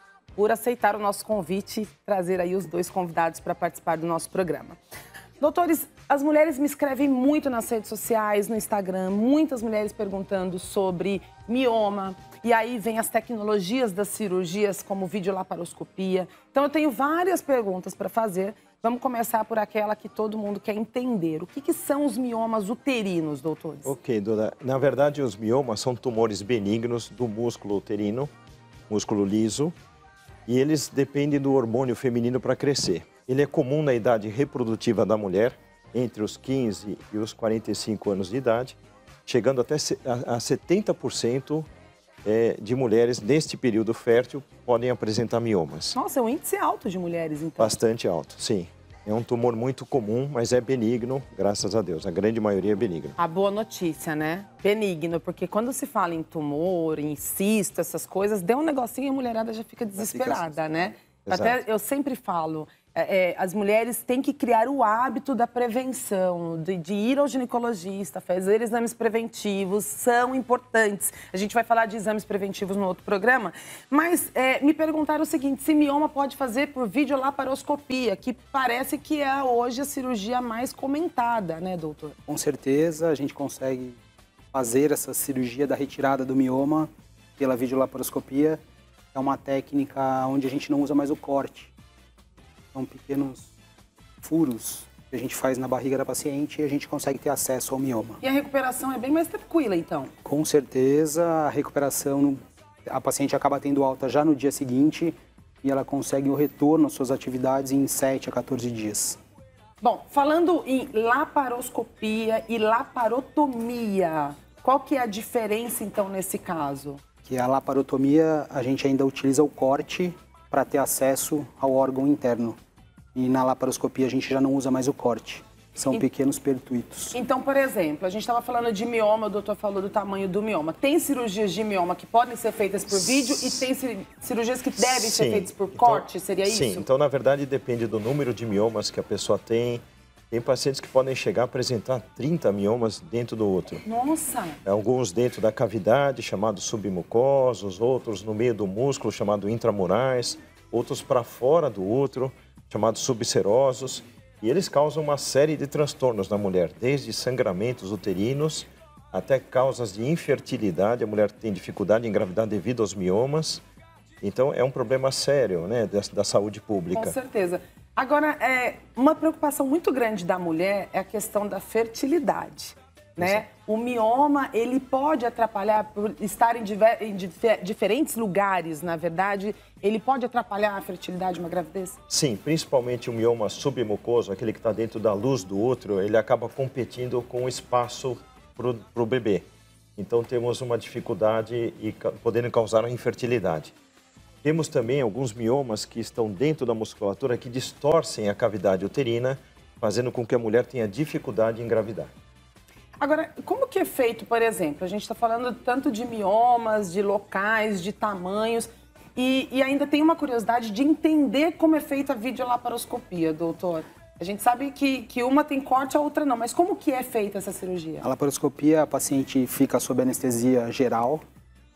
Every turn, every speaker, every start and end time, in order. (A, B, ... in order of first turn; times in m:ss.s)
0:00.4-0:04.8 A
0:05.4-0:23.9 A
0:23.8-0:28.3 B
0:28.9-0:29.7 B
0:30.5-0:41.7 B
0:42.2-0:46.0 B
0:45.9-0:47.8 A
0:47.6-0:53.2 B
0:53.2-1:22.2 A
1:00.0-1:00.5 C
1:01.2-1:01.6 B
1:22.3-1:24.0 C
1:24.5-1:28.6 C
1:29.1-1:31.7 C
1:32.7-1:33.5 C
1:34.2-1:38.2 C
1:38.2-1:40.1 A
1:40.2-1:49.2 C
1:49.8-1:57.0 A
1:57.2-2:02.6 C
2:03.1-2:07.2 C
2:07.1-2:16.8 A
2:13.0-2:13.4 B
2:14.8-2:23.8 B
2:23.8-2:24.6 A
2:24.6-2:43.6 B
2:44.2-2:47.2 B
2:46.9-3:02.0 A
2:53.2-2:53.4 B
3:02.1-3:09.4 B
3:10.0-3:13.7 B
3:14.4-3:22.1 B
3:23.0-3:38.0 A
3:38.0-3:41.2 C